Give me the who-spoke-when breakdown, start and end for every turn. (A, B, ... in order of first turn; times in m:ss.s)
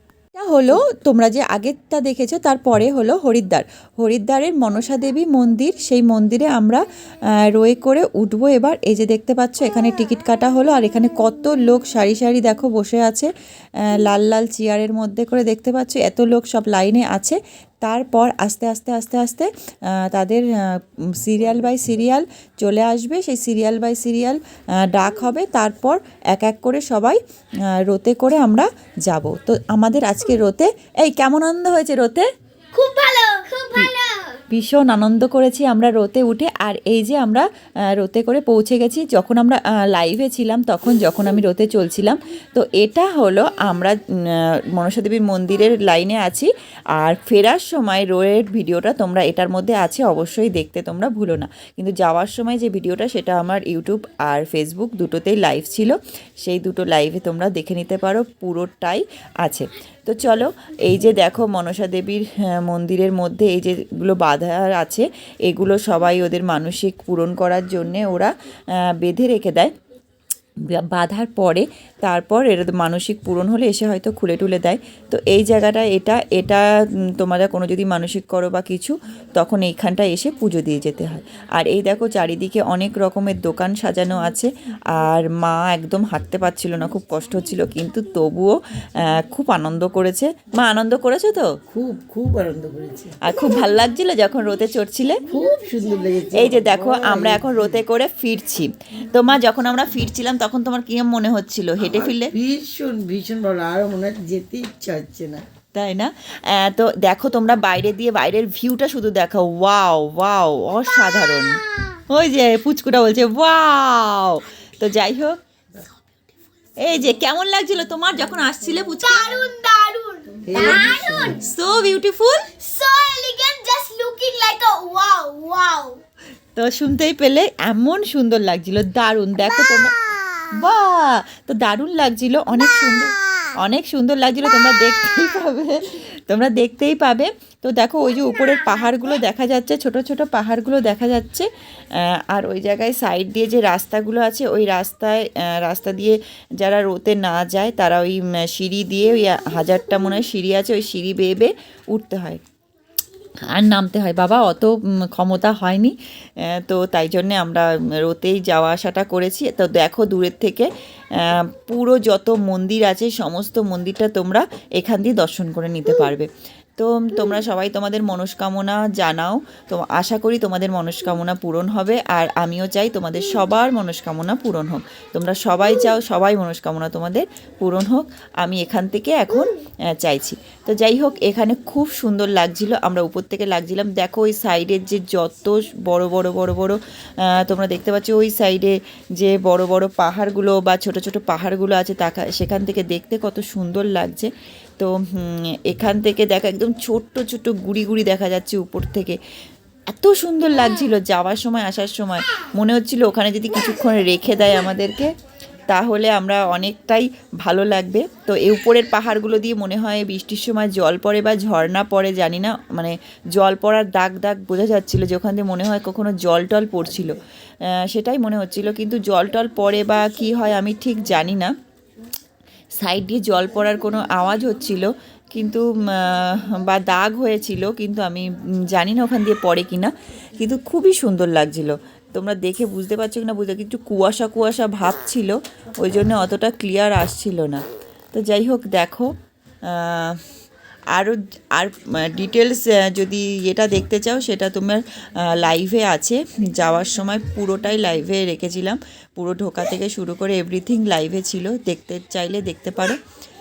0:00.3-0:06.8 A
0:07.4-0:32.3 A
0:32.7-0:34.4 B
0:34.5-1:09.7 A
1:10.6-1:31.5 A
1:31.7-1:33.1 C
1:33.2-1:35.2 A
1:35.3-1:37.8 C
1:36.3-1:42.3 A
1:41.8-1:45.4 C
1:45.8-1:55.4 A
1:56.8-1:59.4 A
1:59.0-2:01.4 B
2:00.4-2:01.4 C
2:00.6-2:02.5 A
2:02.6-2:06.0 B
2:06.6-2:10.0 A
2:10.6-2:32.4 A
2:33.5-3:19.2 A
3:19.9-3:25.1 A
3:25.7-3:37.2 A
3:37.7-3:41.5 A
3:42.8-3:59.1 A
3:59.6-4:00.2 A
4:01.0-4:13.0 A